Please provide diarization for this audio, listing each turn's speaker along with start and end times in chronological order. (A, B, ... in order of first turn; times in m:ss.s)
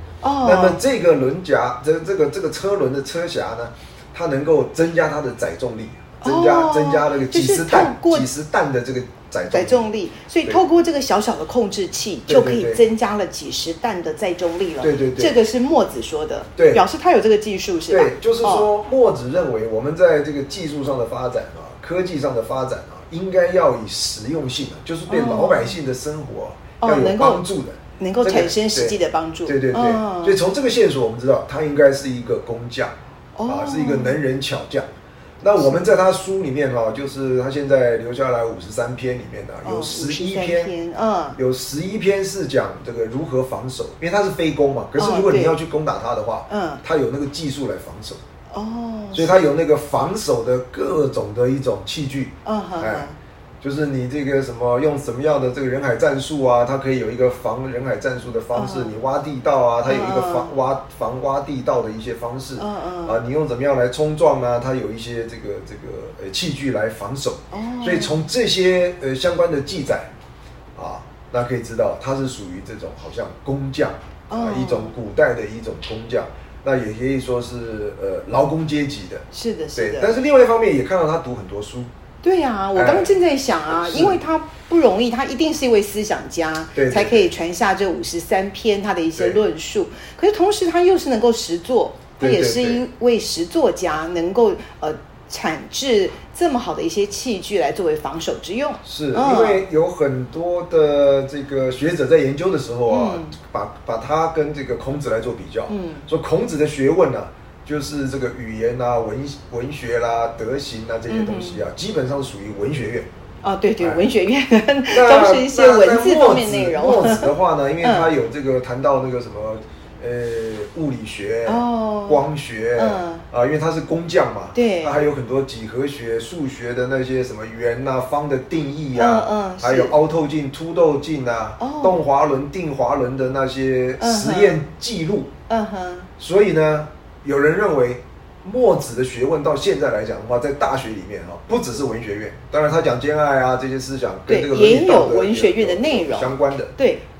0:00.2-0:00.8 A
0:00.4-0:09.9 B
0:06.2-0:08.3 A
0:09.5-0:18.7 A
0:12.3-0:12.8 B
0:14.8-0:15.4 B
0:16.6-0:16.8 B
0:17.9-0:33.0 B
0:25.1-0:25.8 A
0:26.8-0:27.4 A
0:28.0-0:30.4 A
0:33.4-0:34.2 A
0:33.5-0:34.9 B
0:35.4-0:40.7 B
0:35.6-0:36.0 A
0:39.6-0:41.4 A
0:41.4-0:48.2 B
0:45.0-0:45.6 A
0:46.5-0:46.8 A
0:48.5-0:49.5 A
0:49.1-0:53.1 B
0:52.4-0:53.2 A
0:53.6-1:10.1 B
0:58.5-0:59.0 A
0:59.8-1:00.5 A
1:02.6-1:03.2 A
1:07.5-1:08.3 A
1:10.8-1:19.2 B
1:14.3-1:14.9 A
1:19.3-1:20.1 A
1:19.8-1:21.9 B
1:22.2-1:39.6 A
1:22.7-1:23.2 B
1:23.7-1:24.2 B
1:26.8-1:27.3 B
1:32.2-1:32.8 B
1:38.8-1:53.1 B
1:42.9-1:43.4 A
1:45.7-1:46.1 A
1:51.1-1:51.6 A
1:53.4-1:58.1 A
1:53.8-1:54.1 B
1:54.9-2:15.3 B
2:01.5-2:02.2 A
2:02.8-2:03.2 A
2:04.6-2:05.0 A
2:09.0-2:09.9 A
2:11.6-2:12.0 A
2:14.0-2:14.6 A
2:15.5-2:16.1 A
2:16.2-2:26.7 B
2:24.3-2:27.0 A